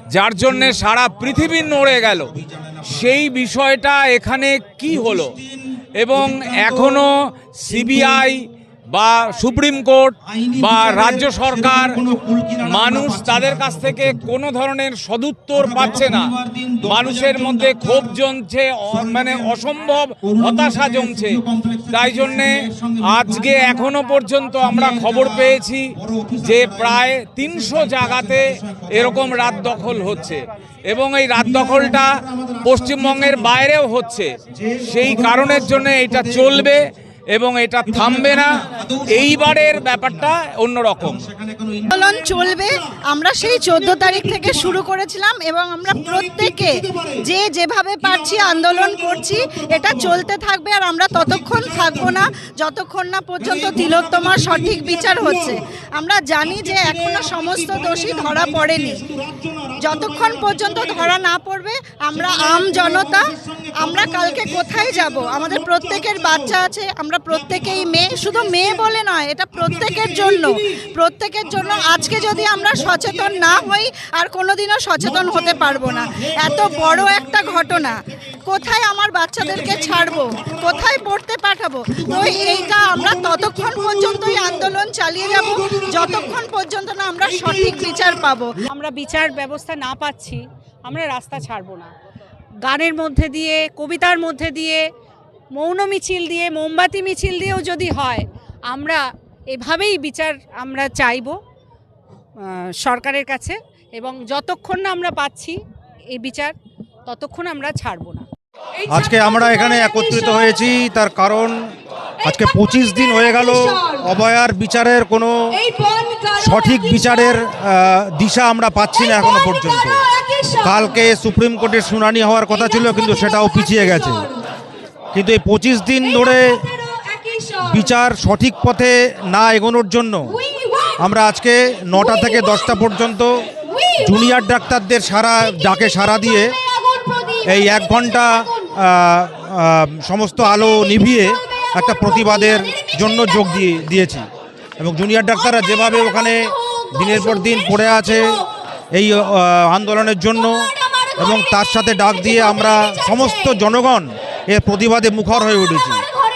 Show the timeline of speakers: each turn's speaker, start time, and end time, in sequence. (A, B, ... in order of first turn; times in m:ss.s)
0:00.1-0:02.3 A
0:00.4-0:03.2 B
0:02.8-0:05.3 A
0:04.9-0:07.0 B
0:06.0-0:11.9 A
0:07.7-0:08.3 B
0:10.2-0:14.3 B
0:12.6-0:16.3 A
0:15.5-0:18.2 B
0:16.8-0:21.3 A
0:18.9-0:19.6 B
0:20.2-0:23.9 B
0:21.9-0:25.8 A
0:24.6-0:30.4 B
0:26.4-0:32.1 A
0:31.3-0:33.6 B
0:32.6-0:34.3 A
0:34.5-0:36.8 B
0:34.9-0:38.5 A
0:37.8-0:40.3 B
0:39.1-0:41.2 A
0:41.0-0:42.7 B
0:41.9-0:59.0 C
0:43.4-0:44.8 B
0:45.9-0:47.2 B
0:48.0-0:50.2 B
0:51.1-0:52.2 B
0:53.4-0:55.6 B
0:56.4-1:01.1 B
0:59.8-1:28.5 C
1:02.1-1:06.6 B
1:07.3-1:08.9 B
1:09.6-1:10.6 B
1:11.5-1:13.7 B
1:15.0-1:17.8 B
1:19.4-1:21.0 B
1:21.9-1:24.6 B
1:25.3-1:26.3 B
1:27.3-1:28.2 B
1:28.7-1:31.9 D
1:32.6-1:34.8 D
1:35.5-1:41.4 D
1:42.5-1:45.6 D
1:46.1-1:46.5 D
1:47.1-1:48.2 D
1:48.9-1:51.6 B
1:52.2-1:55.6 B
1:56.4-2:00.0 B
2:00.6-2:04.3 B
2:05.1-2:06.6 B
2:07.6-2:10.4 B
2:11.0-2:13.4 B
2:14.0-2:16.6 B
2:17.4-2:24.2 B
2:24.8-2:28.4 B
2:28.9-2:36.0 B